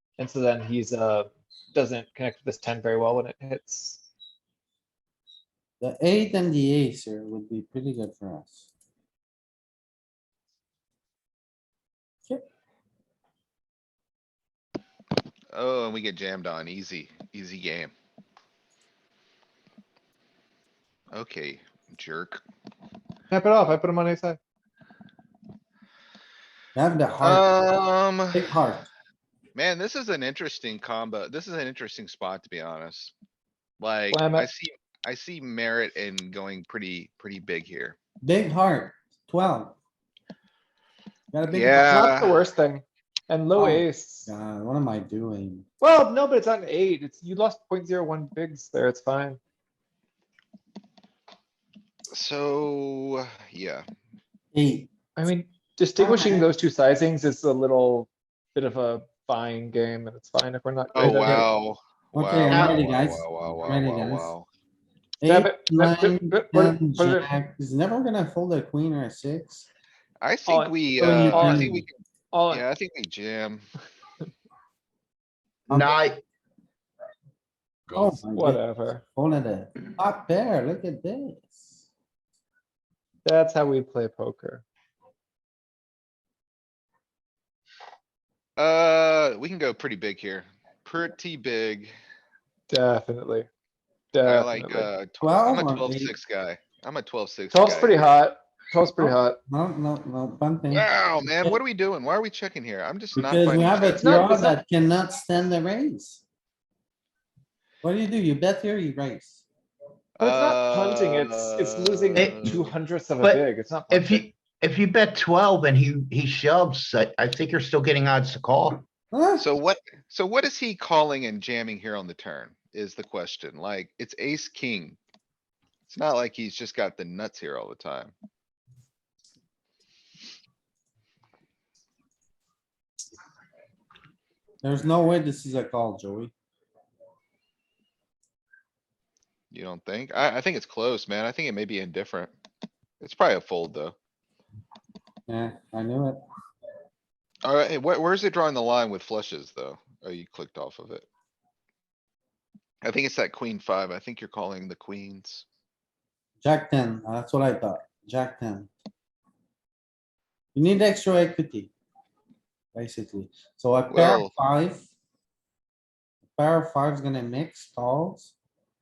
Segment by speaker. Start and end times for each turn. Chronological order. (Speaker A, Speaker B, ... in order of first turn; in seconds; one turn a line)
Speaker A: 0.2-4.0
Speaker B: 5.8-8.7
Speaker C: 15.5-17.9
Speaker C: 21.1-22.4
Speaker A: 23.3-24.4
Speaker B: 26.8-27.5
Speaker C: 27.2-28.5
Speaker B: 28.3-28.9
Speaker C: 29.6-33.1
Speaker C: 33.8-38.0
Speaker A: 34.1-34.5
Speaker B: 38.2-39.8
Speaker B: 41.3-41.9
Speaker C: 41.5-42.4
Speaker A: 41.8-44.3
Speaker B: 43.6-45.7
Speaker A: 45.8-49.4
Speaker C: 52.1-53.9
Speaker B: 54.5-54.9
Speaker A: 55.2-61.5
Speaker B: 56.0-56.5
Speaker C: 60.9-64.5
Speaker B: 62.1-64.3
Speaker D: 62.5-62.8
Speaker B: 65.2-69.7
Speaker A: 65.3-67.3
Speaker C: 70.2-72.0
Speaker A: 70.5-71.7
Speaker B: 71.0-71.9
Speaker A: 72.3-72.7
Speaker C: 72.5-73.6
Speaker D: 75.7-76.2
Speaker B: 77.9-78.6
Speaker A: 78.3-79.0
Speaker B: 79.1-81.8
Speaker A: 83.2-84.6
Speaker C: 88.6-91.9
Speaker A: 92.7-93.5
Speaker A: 94.1-94.9
Speaker C: 94.2-98.0
Speaker B: 95.2-96.2
Speaker A: 97.5-99.4
Speaker B: 99.0-101.6
Speaker C: 100.7-104.2
Speaker B: 103.1-106.2
Speaker A: 104.0-104.6
Speaker B: 107.8-109.4
Speaker C: 110.2-112.7
Speaker A: 110.2-114.3
Speaker D: 112.2-112.6
Speaker D: 113.2-118.8
Speaker B: 119.1-119.5
Speaker C: 119.4-125.0
Speaker C: 125.9-128.1
Speaker B: 134.6-136.3
Speaker C: 139.5-142.3
Speaker C: 143.0-143.9
Speaker B: 145.3-146.2
Speaker C: 147.4-151.1
Speaker C: 152.8-155.5
Speaker B: 156.4-158.7
Speaker B: 160.5-161.7
Speaker B: 162.8-164.9
Speaker C: 163.9-164.3
Speaker B: 166.3-168.3